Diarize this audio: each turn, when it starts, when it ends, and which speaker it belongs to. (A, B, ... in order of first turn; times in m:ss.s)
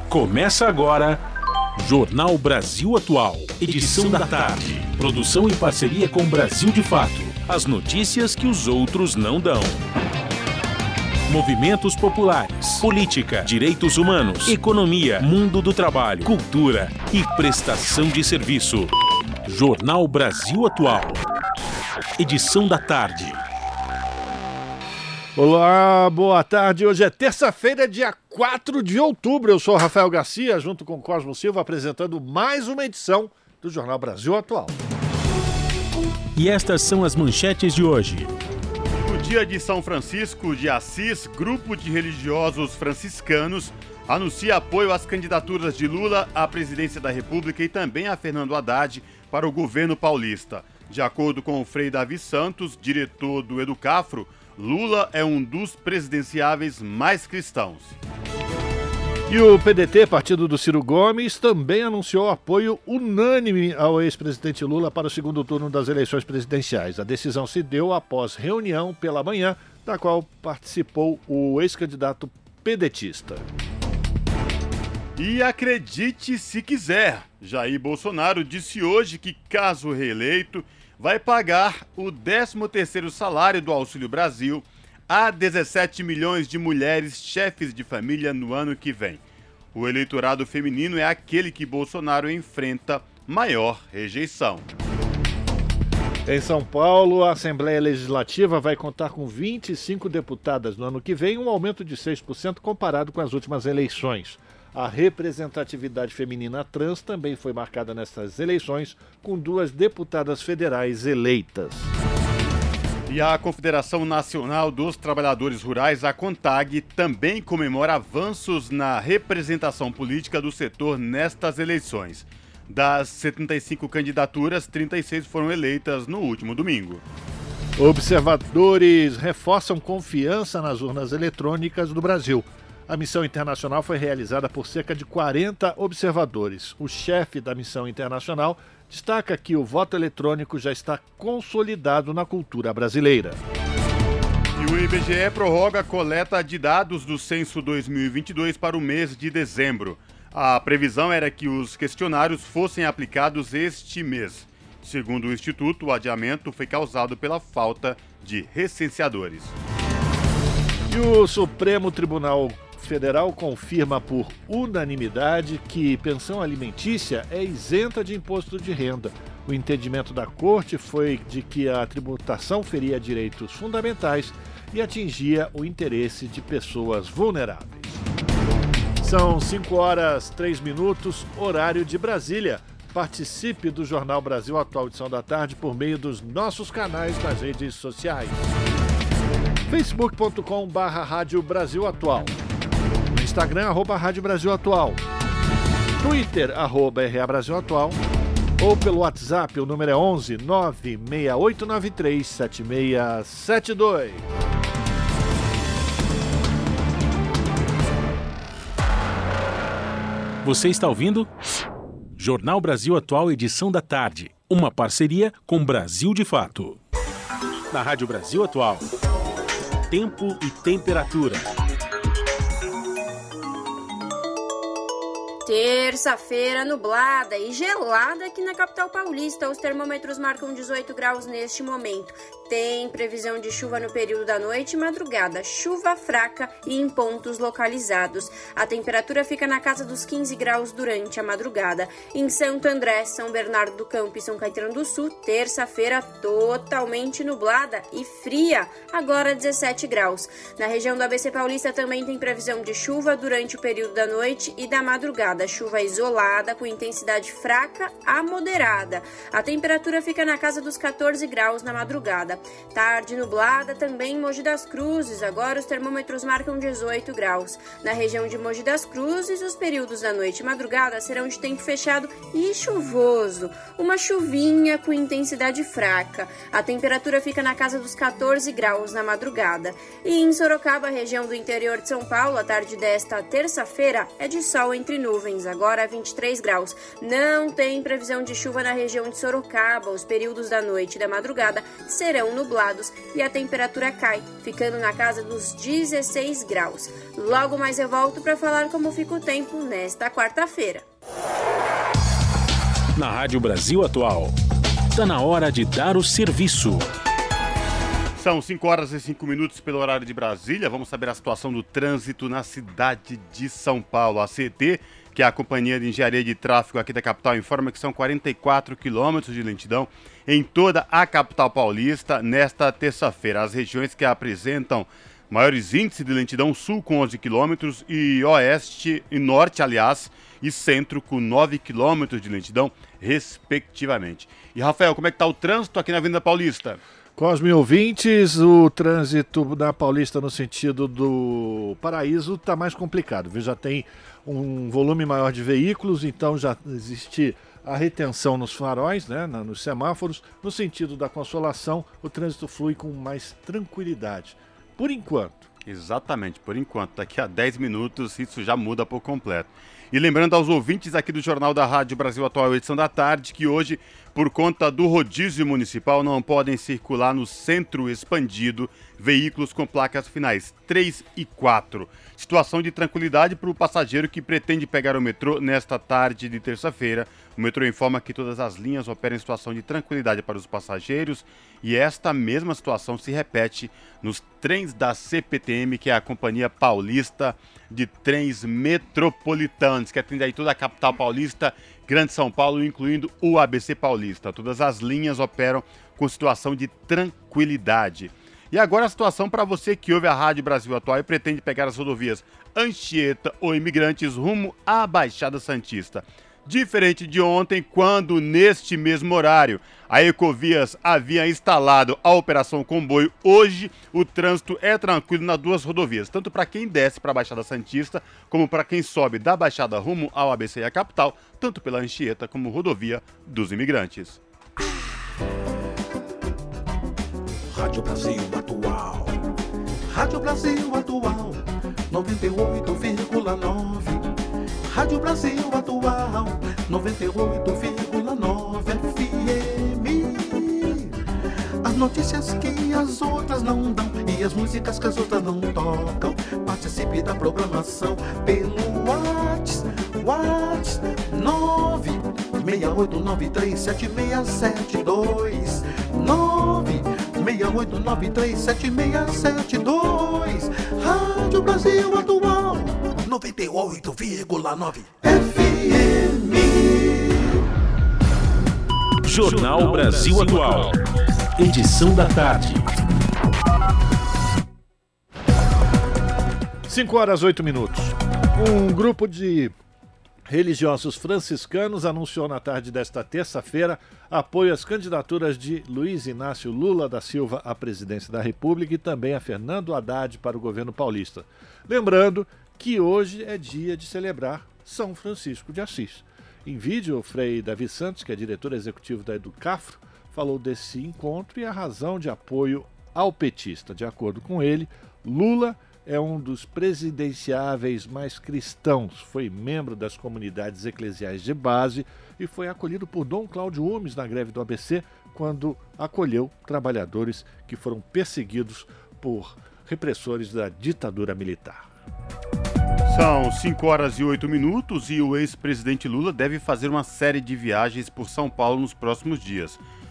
0:00.1-0:01.2 A
0:01.8-0:09.8 A
0:11.3-0:18.9 A
0:19.5-0:21.2 A
0:22.2-0:23.4 A
0:25.4-0:34.7 B
0:36.4-0:38.3 A
0:39.0-0:58.0 C
0:59.3-1:13.4 B
1:15.2-1:29.2 C
1:29.7-1:34.7 C
1:36.3-1:51.9 B
1:53.1-2:07.0 C
2:07.8-2:23.4 B
2:24.6-2:39.5 C
2:40.9-2:58.0 B
2:59.0-3:08.4 B
3:09.7-3:12.3 B
3:13.1-3:15.0 B
3:16.0-3:18.0 B
3:18.6-3:24.3 B
3:30.4-3:31.3 A
3:32.2-3:36.8 A
3:37.7-3:38.8 A
3:39.9-3:41.5 A
3:45.4-5:00.8 D
5:03.0-5:04.3 A
5:04.9-5:06.9 A
5:08.2-5:36.8 C
5:37.2-5:55.5 B
5:55.7-7:04.2 C
7:07.5-7:09.2 E
7:09.9-7:14.1 E
7:14.7-7:20.9 E
7:21.6-7:47.0 E
7:49.0-7:50.8 A
7:51.4-7:52.7 A
7:56.7-7:59.6 B
8:00.3-8:41.7 B
8:42.9-8:49.6 C